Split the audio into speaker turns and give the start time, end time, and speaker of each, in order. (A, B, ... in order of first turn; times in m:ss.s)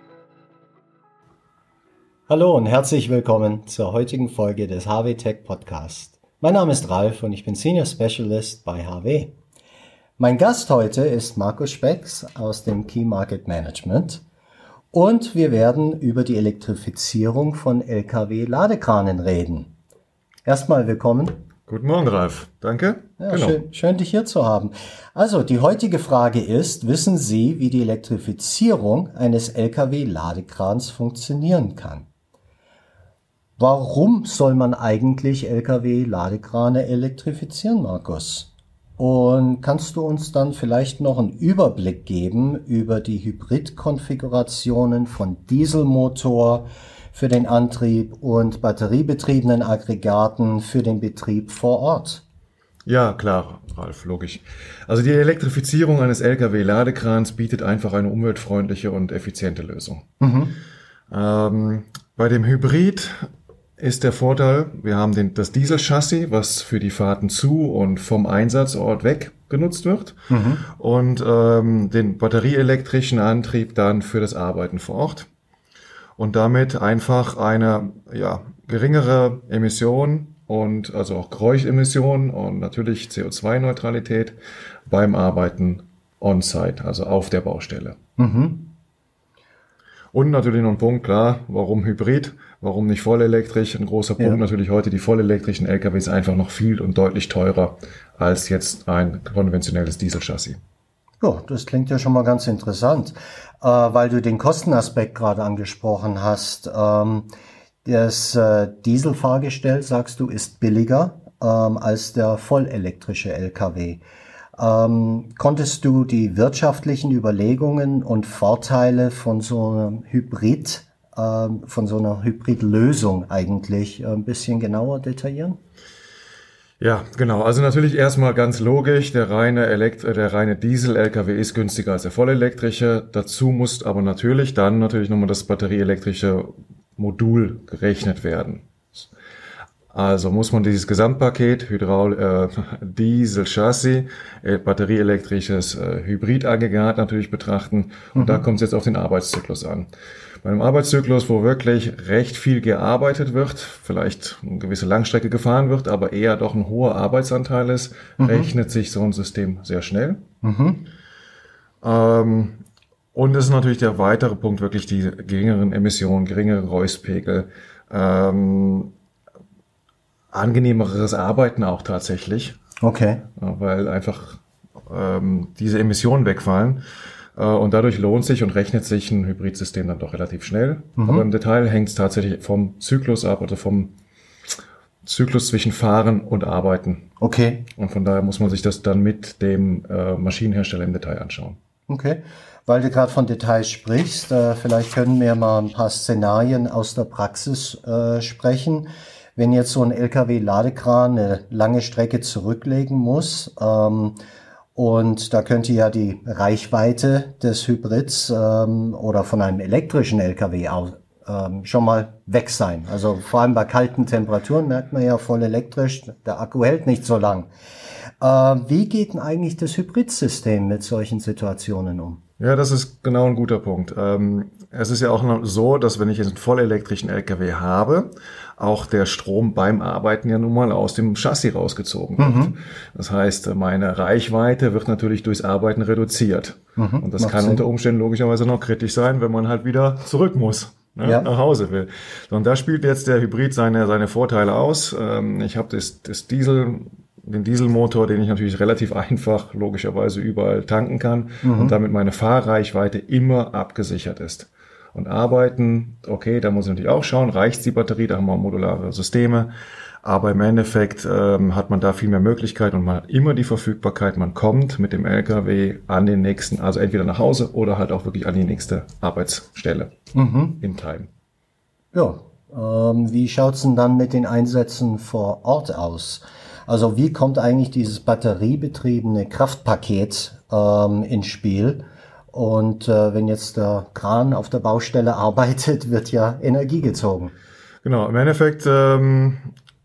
0:02.3-0:09.4 A
0:10.2-0:14.2 A
0:14.9-0:19.7 A
0:20.5-0:21.4 A
0:21.7-0:23.6 B
0:23.2-0:32.1 A
0:33.6-0:52.2 A
0:52.9-1:00.0 B
1:00.2-1:00.5 A
1:01.1-1:15.3 B
1:10.3-1:10.6 A
1:16.2-1:24.4 B
1:24.9-1:28.0 B
1:28.2-1:28.7 A
1:30.1-1:40.6 B
1:41.2-1:47.3 A
1:47.8-1:54.0 A
1:54.6-2:05.6 A
2:06.8-2:19.1 B
2:19.9-2:29.9 B
2:28.2-2:28.4 A
2:30.4-2:40.2 B
2:38.2-2:38.5 A
2:40.4-2:40.8 A
2:41.8-2:42.6 B
2:43.1-2:48.9 B
2:50.3-2:52.6 B
2:52.8-2:53.2 A
2:53.4-2:56.8 B
2:57.4-3:03.9 B
3:01.0-3:01.3 A
3:05.0-3:07.1 B
3:07.2-3:07.6 A
3:07.8-3:11.6 B
3:11.9-3:24.2 A
3:24.8-3:37.5 A
3:38.2-3:42.2 A
3:42.4-4:19.5 B
3:52.2-3:52.5 A
3:56.8-3:57.6 A
4:01.0-4:01.3 A
4:11.4-4:11.8 A
4:20.0-4:29.9 B
4:30.1-4:30.6 A
4:30.6-4:31.1 B
4:31.9-4:47.3 A
4:47.8-4:49.5 B